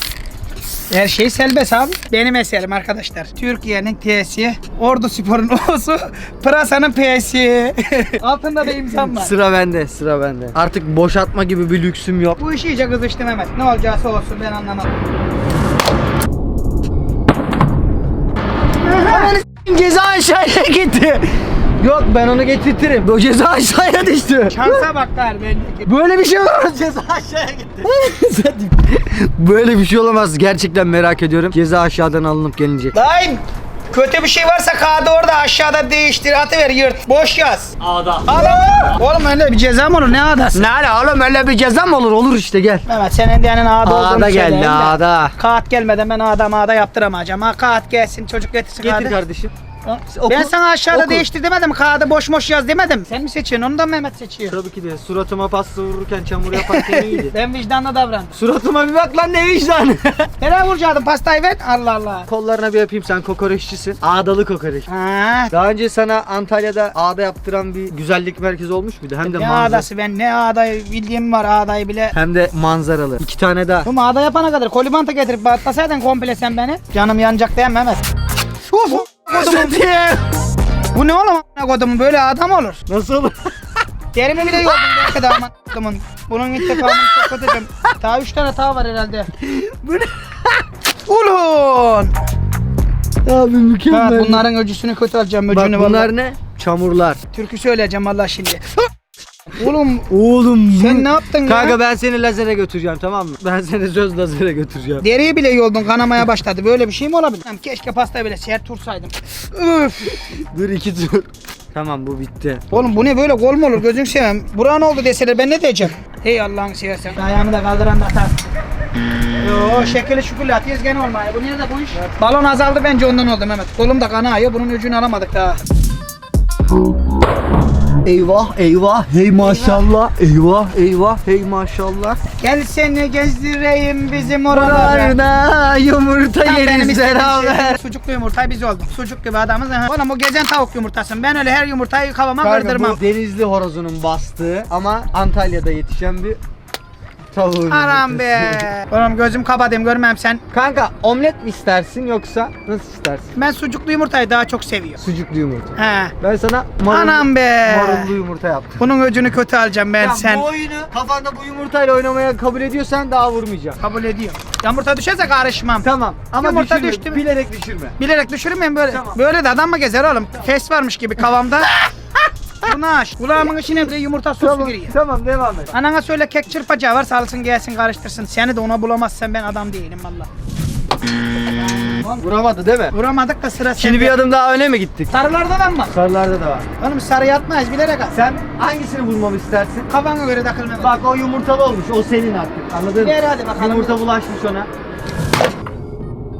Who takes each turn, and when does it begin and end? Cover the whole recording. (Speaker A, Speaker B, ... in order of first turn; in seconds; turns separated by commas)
Speaker A: 0.9-9.3, Speaker B: 8.9-12.4, Speaker A: 12.4-14.9, Speaker A: 18.8-19.3, Speaker B: 18.9-24.8, Speaker A: 24.5-25.9, Speaker B: 25.9-33.0, Speaker A: 32.9-33.4, Speaker A: 33.9-40.7, Speaker B: 37.8-38.3, Speaker B: 40.5-42.9, Speaker A: 42.9-49.2, Speaker B: 43.8-45.3, Speaker B: 48.8-49.5, Speaker A: 49.8-54.5, Speaker B: 50.1-51.2, Speaker B: 54.5-57.3, Speaker A: 56.5-58.3, Speaker B: 58.3-60.3, Speaker A: 60.4-62.3, Speaker B: 62.3-64.9, Speaker A: 64.9-65.5, Speaker B: 65.5-69.8, Speaker A: 69.2-72.1, Speaker B: 72.1-73.9, Speaker A: 73.8-78.0, Speaker A: 78.7-79.8, Speaker B: 79.3-80.2, Speaker A: 80.9-82.8, Speaker B: 82.9-83.8, Speaker A: 84.1-89.3, Speaker B: 84.5-85.2, Speaker B: 86.6-87.3, Speaker B: 89.4-90.5, Speaker A: 91.0-92.1, Speaker B: 93.2-94.4, Speaker A: 93.9-96.1, Speaker B: 95.5-97.2, Speaker A: 97.3-98.9, Speaker A: 99.5-100.1, Speaker B: 100.1-105.0, Speaker A: 100.7-101.8, Speaker A: 105.0-110.2, Speaker B: 110.0-113.0, Speaker A: 112.7-118.4, Speaker A: 119.4-125.6, Speaker B: 128.0-132.2, Speaker A: 129.4-129.8, Speaker A: 132.4-135.2, Speaker B: 134.5-137.8, Speaker A: 136.4-143.0, Speaker B: 142.4-146.4, Speaker B: 147.3-148.7, Speaker A: 147.7-150.4, Speaker B: 150.5-153.3, Speaker A: 153.3-155.0, Speaker B: 155.0-158.8, Speaker A: 155.8-156.1, Speaker A: 156.9-158.1, Speaker A: 158.8-160.5, Speaker B: 160.0-163.8, Speaker A: 163.8-165.9, Speaker B: 165.8-168.0, Speaker A: 166.4-167.2, Speaker A: 168.0-171.7, Speaker B: 168.9-169.2, Speaker A: 172.6-174.9, Speaker B: 174.4-175.7, Speaker A: 175.7-180.3, Speaker A: 181.5-182.2, Speaker B: 182.2-182.9, Speaker A: 182.9-184.2, Speaker B: 183.8-185.1, Speaker A: 185.1-185.9, Speaker B: 185.9-186.7, Speaker A: 186.8-188.1, Speaker B: 188.1-189.9, Speaker A: 189.9-191.0, Speaker B: 190.8-194.7, Speaker A: 192.9-194.0